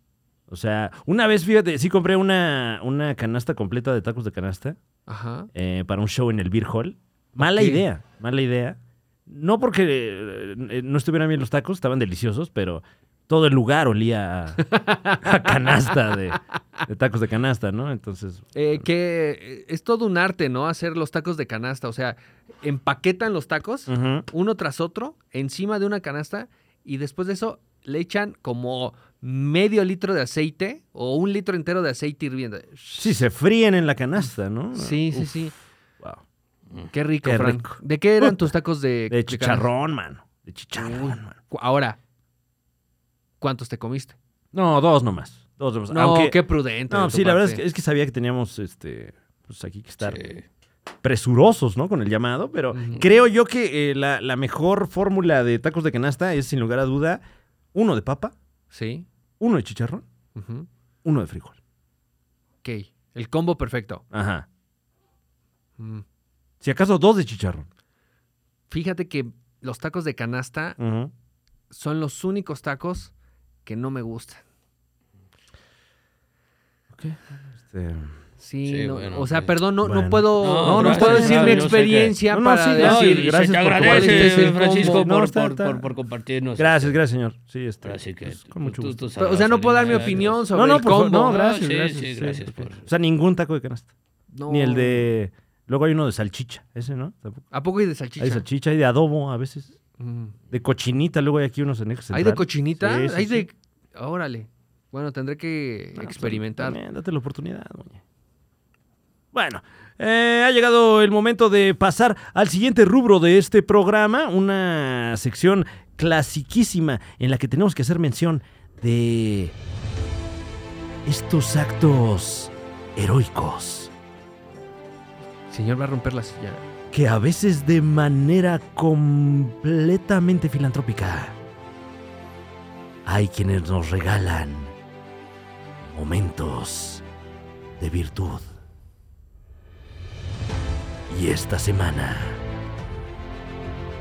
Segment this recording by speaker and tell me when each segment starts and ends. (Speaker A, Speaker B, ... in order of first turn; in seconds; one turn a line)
Speaker A: 0.5-4.8
Speaker B: 5.1-5.5
Speaker A: 5.5-14.6
Speaker B: 7.4-7.8
Speaker B: 14.6-16.1
Speaker A: 15.2-18.8
Speaker B: 18.5-33.2
Speaker A: 23.9-24.3
Speaker A: 32.9-35.4
Speaker B: 34.7-35.5
Speaker B: 36.9-39.6
Speaker A: 37.2-38.5
Speaker A: 39.1-41.3
Speaker B: 40.8-42.0
Speaker B: 43.4-44.1
Speaker A: 44.5-50.2
Speaker B: 45.9-47.6
Speaker C: 50.0-50.4
Speaker A: 51.0-57.2
Speaker B: 52.7-53.0
Speaker A: 57.7-58.3
Speaker B: 58.7-59.0
Speaker A: 59.4-60.0
Speaker B: 60.4-60.7
Speaker A: 61.0-61.6
Speaker B: 62.6-64.0
Speaker A: 64.1-64.5
Speaker B: 65.8-66.0
Speaker A: 66.6-67.7
Speaker B: 68.7-70.8
Speaker A: 70.8-71.1
Speaker B: 71.7-73.1
Speaker B: 73.6-74.4
Speaker A: 76.9-78.1
Speaker B: 78.4-85.1
Speaker C: 78.7-79.5
Speaker A: 79.8-85.9
Speaker C: 80.4-82.1
Speaker C: 82.8-87.0
Speaker A: 86.6-89.0
Speaker C: 87.8-90.4
Speaker B: 89.2-91.3
Speaker A: 89.8-93.9
Speaker C: 91.1-92.8
Speaker B: 94.3-95.1
Speaker A: 94.5-97.5
Speaker B: 97.5-98.4
Speaker A: 98.2-99.7
Speaker B: 100.0-100.3
Speaker A: 100.5-103.5
Speaker B: 102.1-106.8
Speaker A: 106.0-108.0
Speaker A: 109.3-119.5
Speaker A: 121.0-123.9
Speaker B: 125.5-126.6
Speaker A: 126.9-131.3
Speaker A: 133.0-134.7
Speaker A: 135.8-137.0
Speaker A: 137.8-138.5
Speaker A: 141.1-142.4